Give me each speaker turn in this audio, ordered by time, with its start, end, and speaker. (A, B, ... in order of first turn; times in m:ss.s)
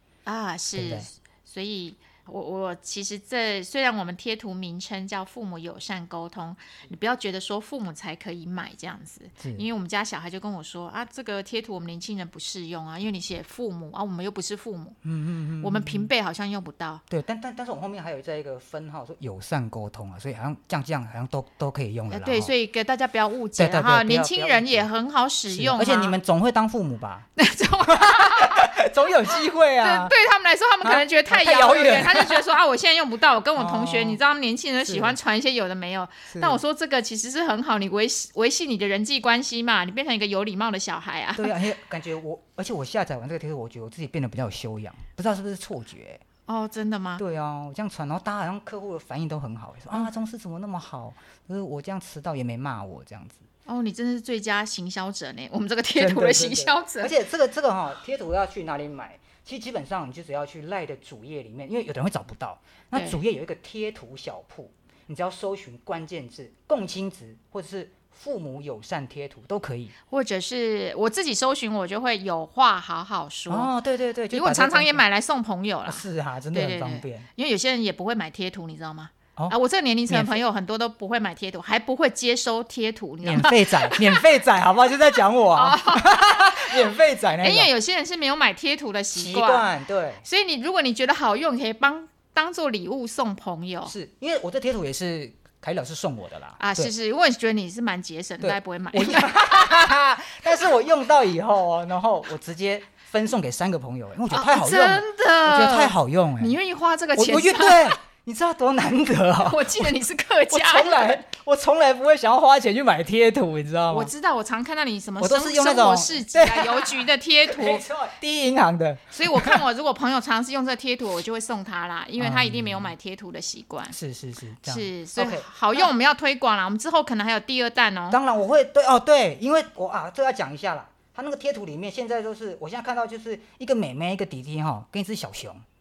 0:00.3-0:15.0 A
0:00.7-0:01.1 B
0:09.4-0:09.7 B
0:15.0-0:16.1 B
0:15.6-0:17.0 A
0:17.1-0:22.5 B
0:22.1-0:26.2 A
0:23.6-0:24.9 B
0:25.5-0:27.3 B
0:27.4-0:28.7 A
0:27.8-0:30.2 B
0:29.8-0:41.6 A
0:30.8-0:32.6 B
0:33.6-0:34.2 B
0:34.8-0:35.2 B
0:36.3-0:36.6 B
0:41.4-0:46.2 B
0:46.5-0:47.2 A
0:47.2-0:53.4 B
0:53.7-0:57.1 A
0:56.0-1:09.9 B
1:02.9-1:03.2 A
1:10.1-1:13.7 A
1:13.5-1:15.0 B
1:14.3-1:24.2 A
1:15.9-1:17.3 B
1:20.1-1:20.4 B
1:23.2-1:27.7 B
1:25.5-1:29.7 A
1:29.1-1:30.3 B
1:30.2-1:33.9 A
1:33.9-1:36.9 B
1:36.6-1:40.0 A
1:38.4-1:46.6 B
1:44.3-1:48.0 A
1:47.1-1:54.1 B
1:49.4-1:51.2 A
1:53.9-1:57.9 A
1:55.2-1:59.6 B
1:59.1-2:04.0 A
2:02.2-2:02.9 B
2:03.9-2:05.9 B
2:04.6-2:08.2 A
2:08.1-2:15.6 B